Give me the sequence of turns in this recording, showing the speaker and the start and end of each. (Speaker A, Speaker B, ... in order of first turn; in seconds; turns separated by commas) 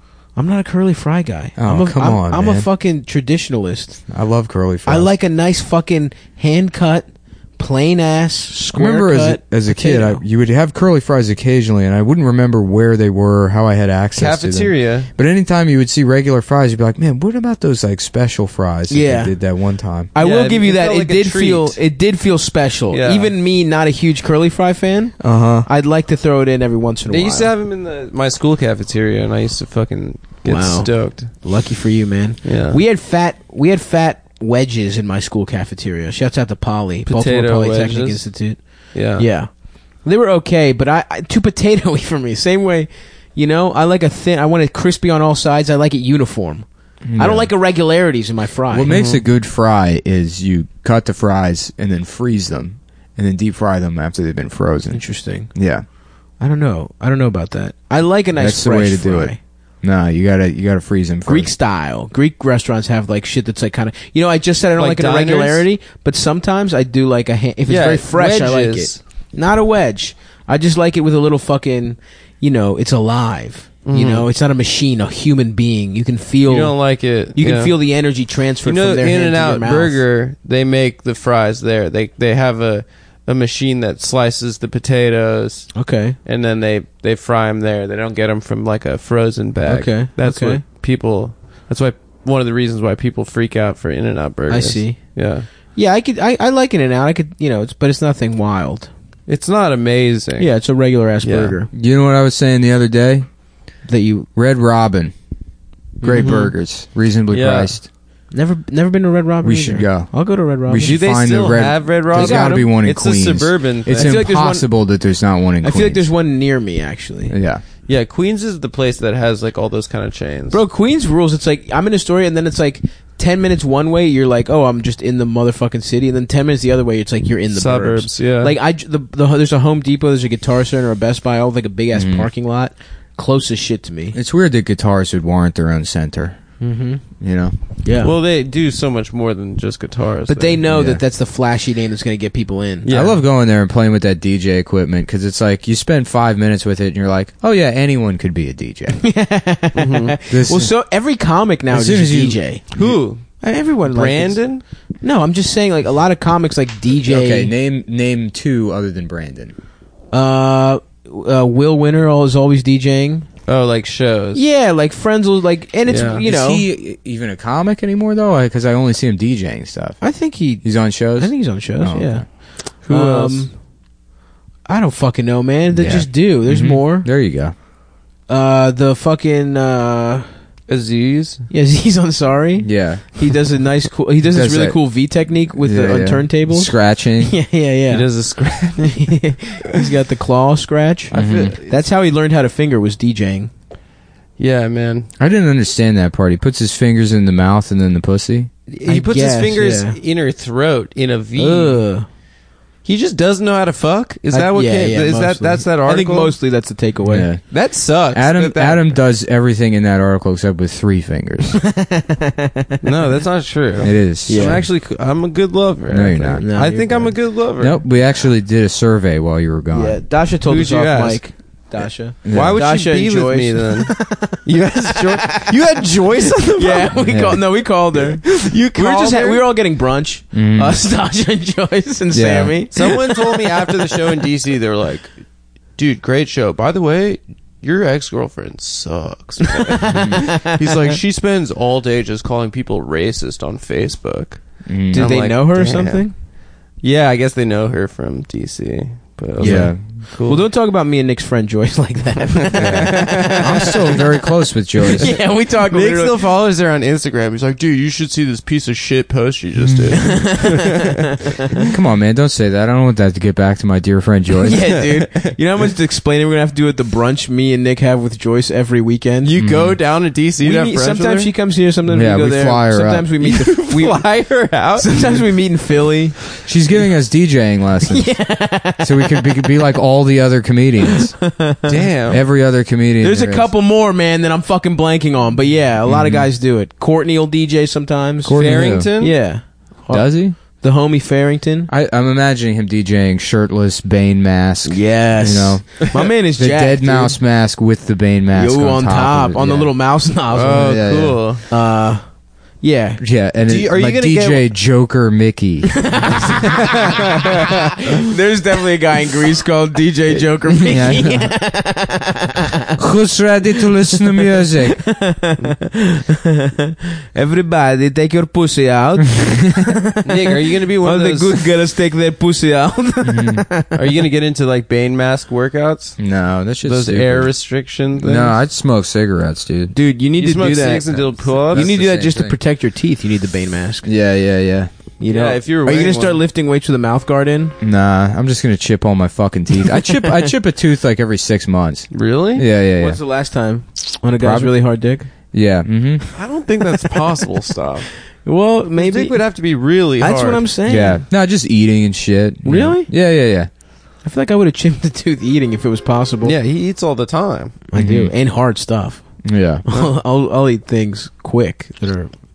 Speaker A: 0.3-4.0, Speaker B: 1.6-2.7, Speaker B: 4.1-5.1, Speaker A: 4.8-10.2, Speaker B: 8.7-20.1, Speaker C: 14.1-15.1, Speaker A: 18.9-19.4, Speaker A: 20.1-27.5, Speaker C: 20.2-21.8, Speaker C: 22.9-23.3, Speaker B: 25.2-25.7, Speaker C: 27.1-31.3, Speaker A: 30.4-39.5, Speaker C: 32.4-32.8, Speaker C: 37.1-38.3, Speaker C: 38.9-39.2, Speaker A: 40.0-48.9, Speaker B: 47.0-47.5, Speaker B: 48.7-55.8, Speaker C: 48.9-49.2, Speaker A: 54.9-55.5, Speaker A: 56.4-59.4, Speaker B: 58.4-61.5, Speaker A: 61.2-76.8, Speaker C: 64.8-65.6, Speaker C: 67.7-69.0, Speaker C: 73.8-74.3, Speaker C: 76.5-77.7, Speaker A: 77.3-80.0, Speaker C: 78.6-95.5, Speaker A: 85.7-86.2, Speaker A: 89.6-90.6, Speaker A: 94.5-95.0, Speaker A: 95.7-98.9, Speaker C: 99.3-100.5, Speaker A: 100.4-101.7, Speaker C: 101.2-101.5, Speaker B: 101.7-103.3, Speaker A: 103.9-104.3, Speaker B: 104.3-105.1, Speaker A: 106.0-106.5, Speaker B: 106.0-107.9, Speaker C: 106.1-106.5, Speaker C: 107.3-107.7, Speaker A: 108.3-110.9, Speaker B: 109.4-110.1, Speaker B: 110.7-116.1, Speaker C: 110.8-114.2, Speaker A: 112.1-112.7, Speaker A: 113.9-114.7, Speaker A: 115.6-117.3, Speaker B: 117.3-117.6, Speaker C: 117.9-120.6, Speaker A: 120.5-134.2, Speaker C: 127.5-128.6, Speaker B: 131.9-132.3, Speaker B: 134.1-136.4, Speaker A: 136.6-137.0, Speaker B: 137.2-137.5, Speaker A: 137.8-138.1, Speaker C: 138.0-140.6, Speaker A: 140.3-142.9, Speaker B: 140.7-141.0, Speaker C: 142.8-143.2, Speaker B: 142.9-149.0, Speaker A: 149.0-152.7, Speaker C: 149.7-150.2, Speaker B: 150.3-150.7, Speaker B: 151.7-152.9, Speaker C: 152.7-154.6, Speaker A: 153.3-154.5, Speaker A: 155.0-157.5, Speaker B: 157.1-159.5, Speaker A: 160.1-163.3, Speaker C: 163.5-164.4, Speaker A: 164.3-166.7, Speaker C: 165.9-166.2, Speaker B: 166.2-170.0, Speaker A: 170.0-172.2, Speaker B: 170.6-172.2, Speaker C: 172.8-173.5, Speaker A: 172.9-173.5, Speaker A: 174.7-177.1, Speaker B: 175.7-177.5, Speaker A: 178.3-180.3, Speaker C: 180.7-181.4, Speaker A: 181.5-188.1, Speaker B: 182.6-183.0, Speaker B: 184.2-184.8, Speaker B: 185.6-187.3, Speaker C: 187.9-189.2, Speaker A: 188.8-191.1, Speaker C: 191.1-191.8, Speaker B: 191.1-191.5, Speaker A: 191.7-193.5, Speaker C: 194.4-195.1, Speaker B: 195.2-198.5, Speaker C: 198.7-201.8, Speaker A: 198.8-200.0, Speaker A: 201.4-202.1, Speaker C: 202.8-206.3, Speaker A: 204.3-207.3, Speaker B: 207.1-207.5, Speaker C: 207.5-209.0, Speaker B: 208.1-211.6, Speaker A: 211.6-212.8, Speaker C: 212.8-217.8, Speaker B: 213.8-214.7, Speaker A: 214.3-214.7, Speaker B: 215.9-216.4, Speaker A: 216.4-217.2, Speaker B: 217.6-220.0, Speaker A: 219.7-224.4, Speaker C: 220.4-221.2, Speaker B: 222.2-222.6, Speaker C: 222.3-227.3, Speaker A: 224.9-225.5, Speaker A: 226.5-233.7, Speaker B: 227.0-227.4, Speaker C: 227.9-229.4, Speaker B: 230.3-230.8, Speaker B: 232.1-232.6, Speaker C: 232.7-235.1, Speaker C: 235.8-246.1, Speaker A: 239.7-240.8, Speaker B: 239.9-240.2, Speaker B: 244.7-245.1, Speaker A: 244.9-246.1, Speaker C: 246.8-250.4, Speaker B: 249.4-249.8, Speaker A: 249.4-254.0, Speaker C: 252.5-254.0, Speaker B: 252.6-255.1, Speaker A: 254.9-256.2, Speaker C: 255.0-261.6, Speaker B: 259.6-260.1, Speaker A: 260.0-260.9, Speaker B: 261.7-264.6, Speaker A: 264.4-269.3, Speaker C: 264.6-265.4, Speaker C: 269.2-271.3, Speaker B: 269.4-269.8, Speaker A: 270.4-274.0, Speaker B: 271.9-273.1, Speaker C: 273.2-275.2, Speaker A: 274.7-276.2, Speaker B: 276.4-278.1, Speaker A: 277.9-279.6, Speaker B: 278.8-281.1, Speaker A: 280.9-281.8, Speaker C: 281.6-282.2, Speaker B: 282.1-283.5, Speaker A: 283.0-291.7, Speaker B: 285.9-286.3, Speaker B: 288.2-288.9, Speaker C: 288.3-289.2, Speaker B: 289.9-290.4, Speaker B: 291.7-299.7, Speaker A: 294.6-297.2, Speaker A: 298.3-300.8, Speaker C: 300.3-301.4, Speaker B: 300.5-301.2, Speaker A: 301.5-303.0, Speaker B: 303.0-306.0, Speaker C: 303.4-304.5, Speaker A: 305.8-307.0, Speaker C: 306.4-307.3, Speaker A: 307.9-312.7, Speaker B: 310.6-311.3, Speaker B: 312.8-314.8, Speaker A: 313.9-323.8, Speaker C: 320.0-321.4, Speaker B: 323.0-323.4, Speaker C: 323.7-326.0, Speaker B: 326.0-327.3, Speaker C: 326.6-328.4, Speaker B: 328.0-329.7, Speaker A: 329.7-333.9, Speaker C: 330.2-331.7, Speaker B: 330.9-332.4, Speaker B: 333.8-334.7, Speaker A: 335.0-337.5, Speaker C: 335.1-336.2, Speaker B: 337.6-343.0, Speaker A: 339.7-340.3, Speaker C: 341.9-342.4, Speaker A: 342.8-345.1, Speaker B: 344.2-344.5, Speaker B: 345.3-346.0, Speaker C: 346.1-347.9, Speaker A: 348.2-349.2, Speaker C: 348.8-350.5, Speaker A: 350.0-351.0, Speaker B: 350.6-353.5, Speaker A: 352.4-352.9, Speaker A: 354.0-356.3, Speaker C: 356.2-357.6, Speaker A: 357.7-359.0, Speaker B: 357.7-358.1, Speaker B: 359.2-359.6, Speaker A: 359.6-362.1